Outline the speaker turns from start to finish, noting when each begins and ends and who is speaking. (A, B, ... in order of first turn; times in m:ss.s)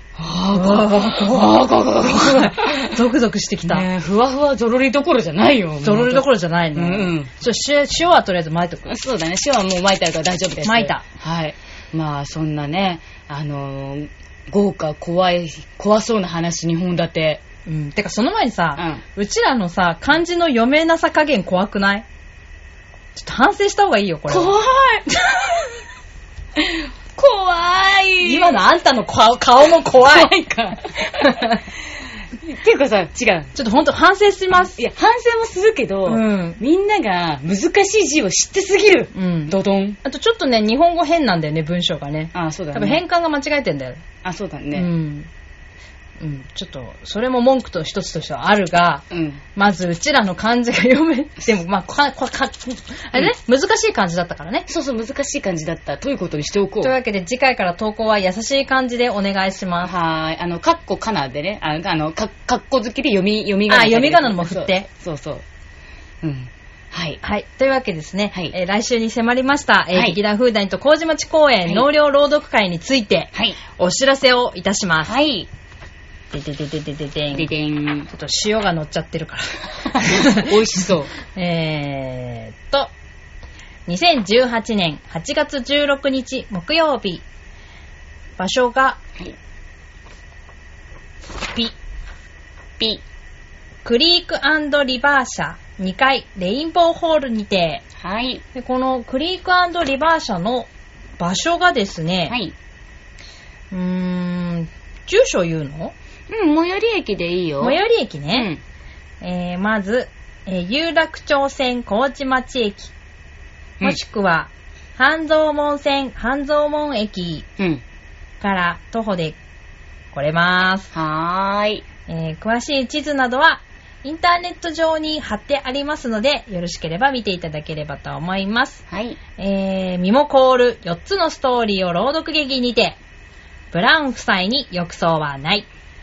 0:00.2-0:03.0 A
0:00.5-0:03.9 B
0:03.7-0:07.3 A
0:05.8-0:08.9 B
0:08.9-0:17.4 A
0:10.6-0:11.0 B
0:17.7-0:22.1 B
0:18.8-0:19.0 A
0:23.2-0:24.5 B
0:24.3-0:25.7 A
0:26.6-0:28.6 A
0:28.2-0:30.3 B
0:30.0-0:31.6 A
0:31.1-0:31.6 B
0:32.4-0:33.5 A
0:33.6-0:34.8 B
0:34.7-0:40.0 A
0:36.1-0:36.6 B
0:39.1-0:44.0 B
0:42.3-0:43.0 A
0:44.2-0:44.9 A
0:44.8-0:45.3 B
0:46.2-0:54.7 B
0:49.1-0:49.4 A
0:54.7-0:57.0 A
0:56.8-0:59.9 B
0:59.8-1:05.4 A
1:03.7-1:04.9 B
1:06.2-1:07.2 A
1:07.2-1:15.2 B
1:09.9-1:10.2 A
1:15.0-1:15.5 A
1:16.3-1:17.5 B
1:17.3-1:18.1 A
1:18.1-1:20.5 B
1:19.9-1:21.1 A
1:21.3-1:22.9 B
1:23.9-1:27.2 B
1:28.4-1:29.0 B
1:33.8-1:37.8 B
1:38.0-1:38.4 A
1:38.5-1:42.4 B
1:42.3-1:42.6 A
1:43.7-1:45.9 B
1:46.3-1:47.8 A
1:47.6-1:48.5 B
1:48.3-1:48.6 A
1:49.2-1:52.9 B
1:53.8-1:57.5 B
1:58.4-1:59.4 B
2:00.1-2:00.9 B
2:00.9-2:01.8 A
2:02.1-2:08.8 B
2:08.9-2:09.2 A
2:09.4-2:13.0 B
2:13.7-2:15.7 B